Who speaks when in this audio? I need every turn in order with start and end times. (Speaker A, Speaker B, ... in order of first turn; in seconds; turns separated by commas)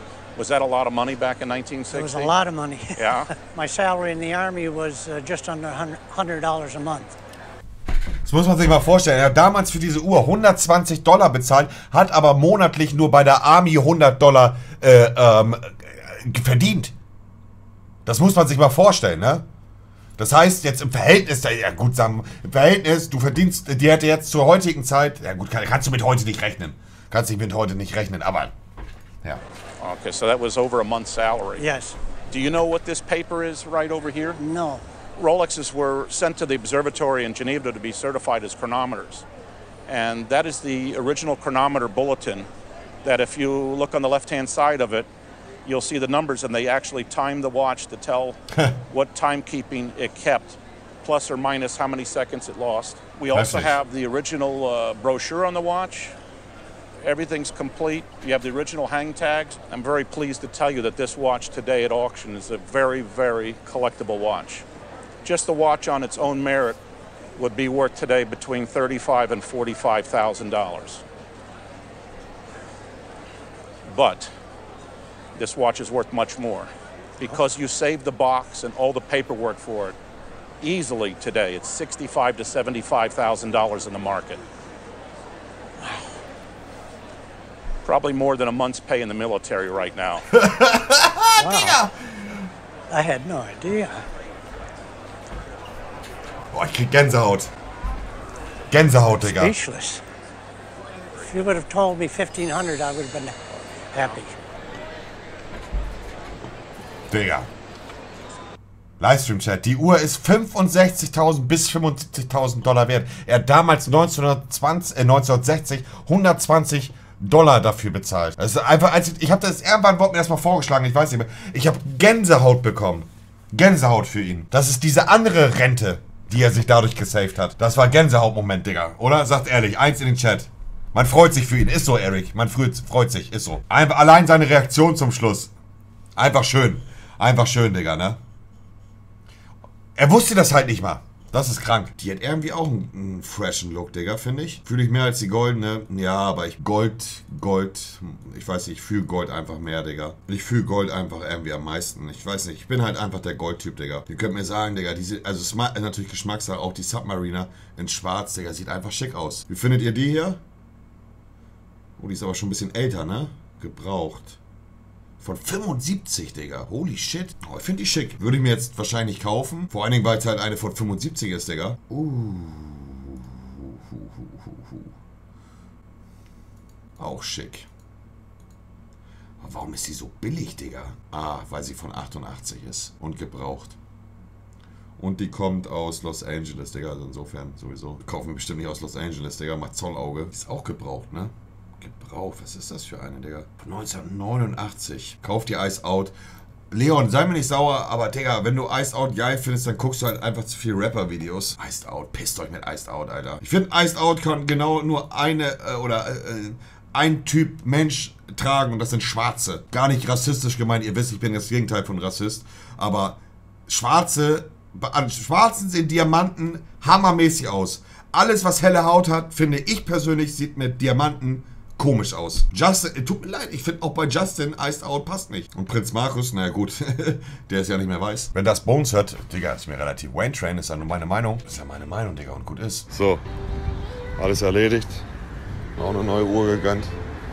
Speaker A: 0.4-2.3, Speaker B: 1.9-7.2, Speaker A: 3.0-3.3, Speaker C: 8.2-16.9, Speaker C: 18.1-19.4, Speaker C: 20.2-28.5, Speaker A: 29.8-31.6, Speaker B: 31.6-32.0, Speaker A: 32.3-34.4, Speaker B: 34.4-34.9, Speaker A: 35.2-39.3, Speaker A: 39.9-42.5, Speaker A: 43.0-45.1, Speaker A: 45.6-48.4, Speaker A: 48.9-56.2, Speaker C: 53.3-53.8, Speaker A: 57.0-64.7, Speaker A: 65.2-66.8, Speaker A: 67.4-71.0, Speaker A: 73.9-74.3, Speaker A: 75.4-80.0, Speaker A: 80.6-84.4, Speaker A: 87.8-90.3, Speaker C: 90.3-92.2, Speaker B: 91.4-91.8, Speaker B: 92.9-94.0, Speaker C: 96.5-97.5, Speaker C: 98.7-99.6, Speaker B: 99.2-100.0, Speaker B: 101.2-104.4, Speaker C: 107.1-107.5, Speaker C: 109.0-135.5, Speaker C: 136.2-138.2, Speaker C: 140.0-160.4, Speaker C: 162.0-164.4, Speaker C: 165.2-174.9, Speaker C: 177.0-177.7, Speaker C: 179.4-183.8, Speaker C: 185.0-196.1, Speaker C: 196.7-233.2, Speaker C: 234.2-235.1, Speaker C: 235.8-237.0